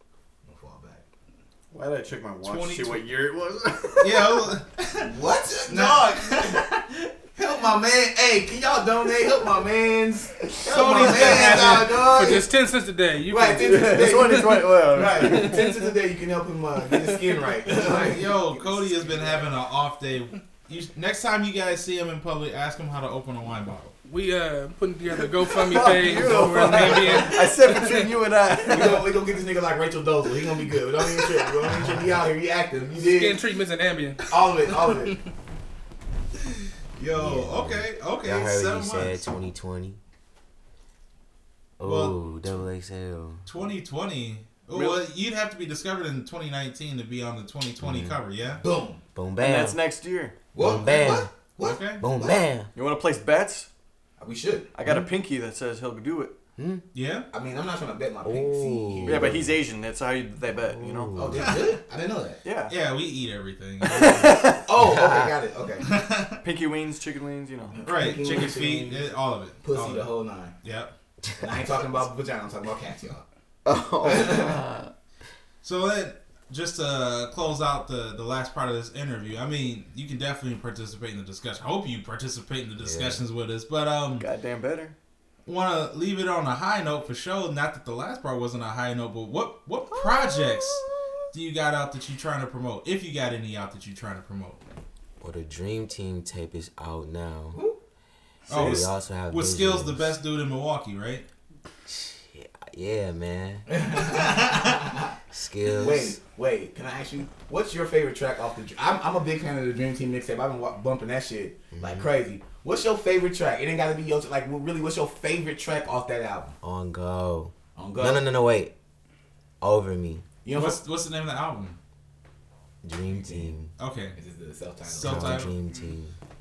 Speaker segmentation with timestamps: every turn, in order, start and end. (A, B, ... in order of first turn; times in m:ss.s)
0:00.4-0:01.0 A
0:01.7-0:04.5 B
0:02.4-0:03.0 C
0:04.0-0:05.1 C
0:05.0-0:12.5 A
0:05.7-0:06.6 C
0:10.6-0:11.9 C
0:11.4-0:14.7 D
0:13.3-0:19.4 A
0:13.6-0:15.7 B
0:15.2-0:15.8 D
0:17.0-0:17.3 D
0:17.8-0:24.0 C
0:24.0-0:28.1 D
0:25.4-0:29.1 B
0:28.7-0:33.4 A
0:33.0-0:34.3 D
0:34.3-0:35.2 A
0:34.8-0:35.2 D
0:37.0-0:39.2 C
0:37.1-0:40.0 E
0:41.8-0:43.4 E
0:41.8-0:42.3 C
0:43.4-0:48.6 C
0:44.7-0:45.0 B
0:47.8-0:48.2 E
0:48.6-0:49.0 A
0:49.2-0:49.8 E
0:49.4-0:50.4 B
0:50.5-0:52.3 A
0:50.6-0:51.3 E
0:51.6-0:52.0 C
0:52.0-0:52.7 E
0:52.8-0:53.7 B
0:54.2-0:54.7 A
0:54.7-0:56.3 B
0:56.6-0:56.8 E
0:56.9-0:57.3 C
0:57.3-0:59.4 A
0:58.2-0:59.5 E
0:59.1-1:01.2 B
1:00.7-1:01.6 E
1:01.2-1:02.4 A
1:02.4-1:02.7 B
1:02.7-1:04.6 C
1:03.8-1:04.6 B
1:04.6-1:05.9 A
1:04.8-1:05.3 E
1:05.8-1:06.4 C
1:06.4-1:07.8 B
1:07.7-1:10.5 A
1:07.9-1:10.1 C
1:10.6-1:11.0 C
1:11.4-1:13.2 A
1:13.6-1:14.9 E
1:14.0-1:14.6 A
1:15.6-1:24.3 C
1:22.8-1:23.2 E
1:24.2-1:25.0 B
1:25.5-1:34.6 C
1:35.2-1:37.6 E
1:38.5-1:41.3 C
1:38.5-1:38.8 B
1:38.5-1:40.1 E
1:41.9-1:43.7 E
1:43.7-1:45.1 A
1:44.0-1:44.8 C
1:45.3-1:46.2 E
1:45.7-1:56.6 A
1:51.7-1:52.1 E
1:56.6-1:58.7 E
1:57.8-1:58.3 A
1:59.6-2:00.3 E
2:00.4-2:00.8 A
2:00.5-2:01.8 C
2:02.8-2:03.7 E
2:03.1-2:03.6 A
2:03.8-2:04.2 C
2:04.2-2:05.4 A
2:04.9-2:05.5 C
2:05.0-2:06.2 E